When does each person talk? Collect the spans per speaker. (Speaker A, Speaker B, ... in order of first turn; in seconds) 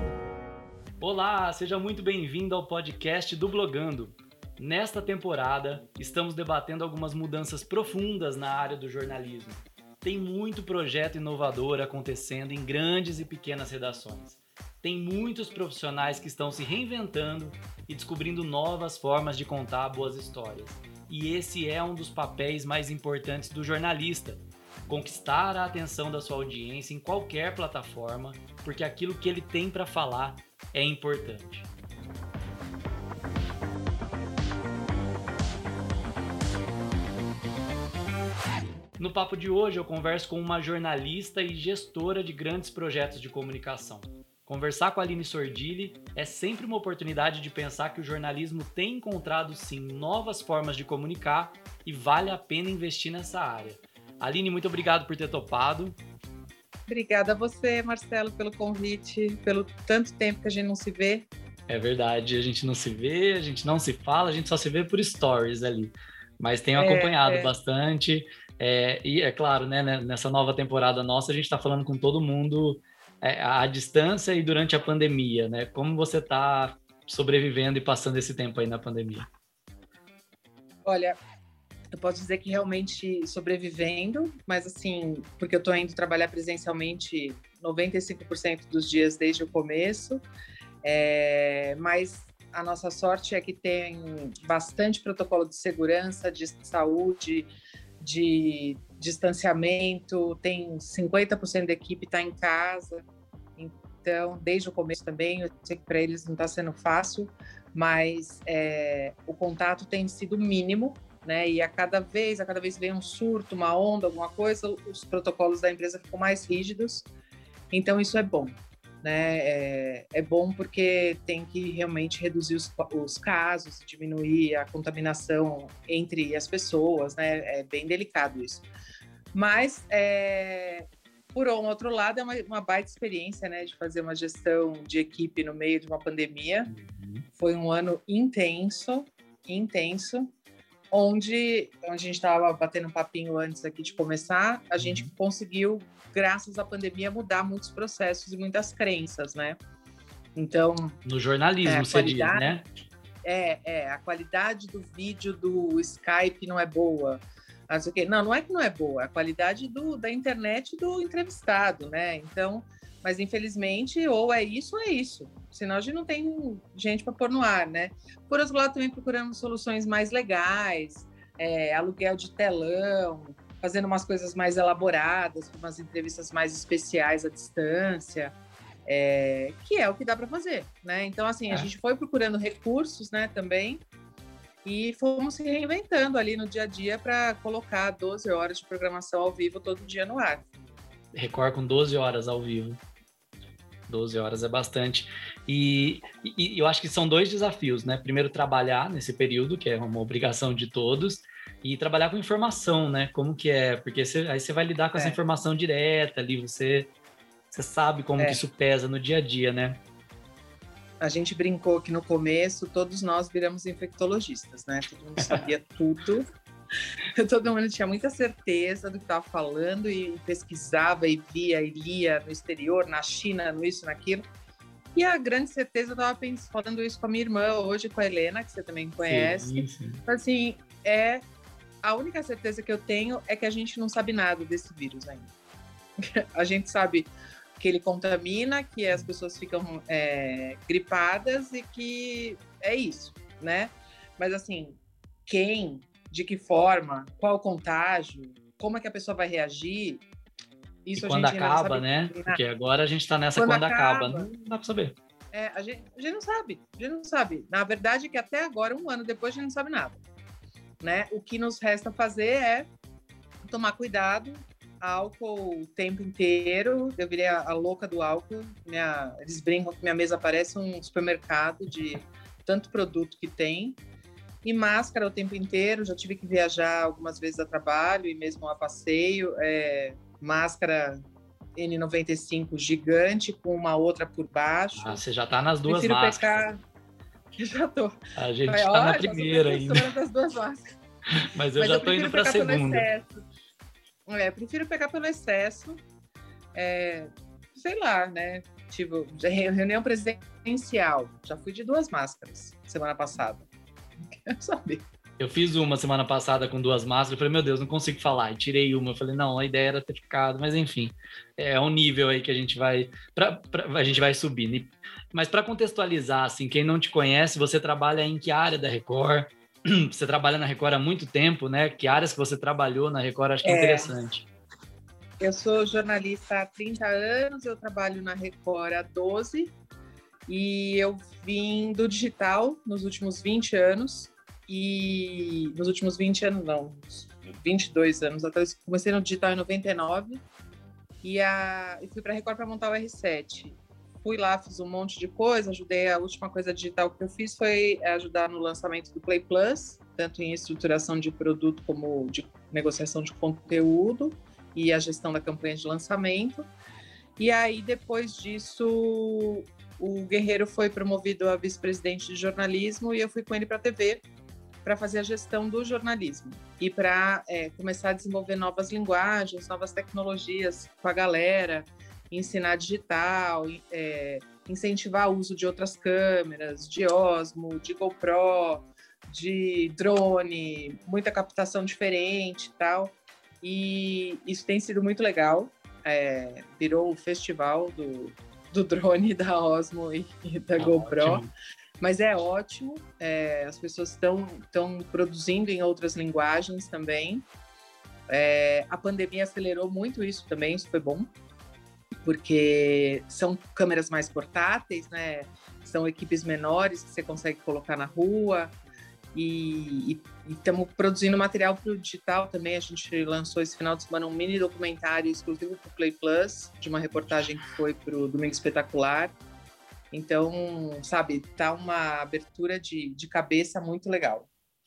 Speaker A: 1.0-31.7, 39.0-56.0, 61.7-79.2, 136.7-137.2, 144.8-145.1, 151.0-152.6, 191.1-192.8, 193.9-206.9, 207.5-209.8, 229.1-230.0, 250.9-254.9, 284.8-286.5, 288.1-289.9, 291.1-292.9, 305.2-324.3, 390.6-391.3
Speaker B: 56.9-61.3, 66.8-67.5, 80.8-81.2, 81.9-90.2, 90.8-103.0, 103.6-117.1, 117.7-128.6, 129.3-136.7, 137.3-140.3, 140.9-149.6, 150.3-151.0, 151.6-152.6, 153.2-183.8, 184.6-190.4, 211.0-216.3, 217.2-224.2, 224.9-231.2, 231.8-235.3, 236.0-250.0, 250.8-252.4, 253.3-254.3, 255.3-260.0, 260.8-262.7, 263.5-273.8, 274.4-281.0, 281.6-285.0, 285.7-286.6, 287.4-290.8, 291.6-293.2, 294.1-295.8, 296.5-303.5, 304.2-304.9, 323.4-323.9, 325.2-329.5, 330.3-340.2, 341.0-356.5, 357.2-364.0, 364.6-391.3, 391.8-397.2, 398.1-401.1, 402.0-408.5, 409.1-419.1, 419.9-424.3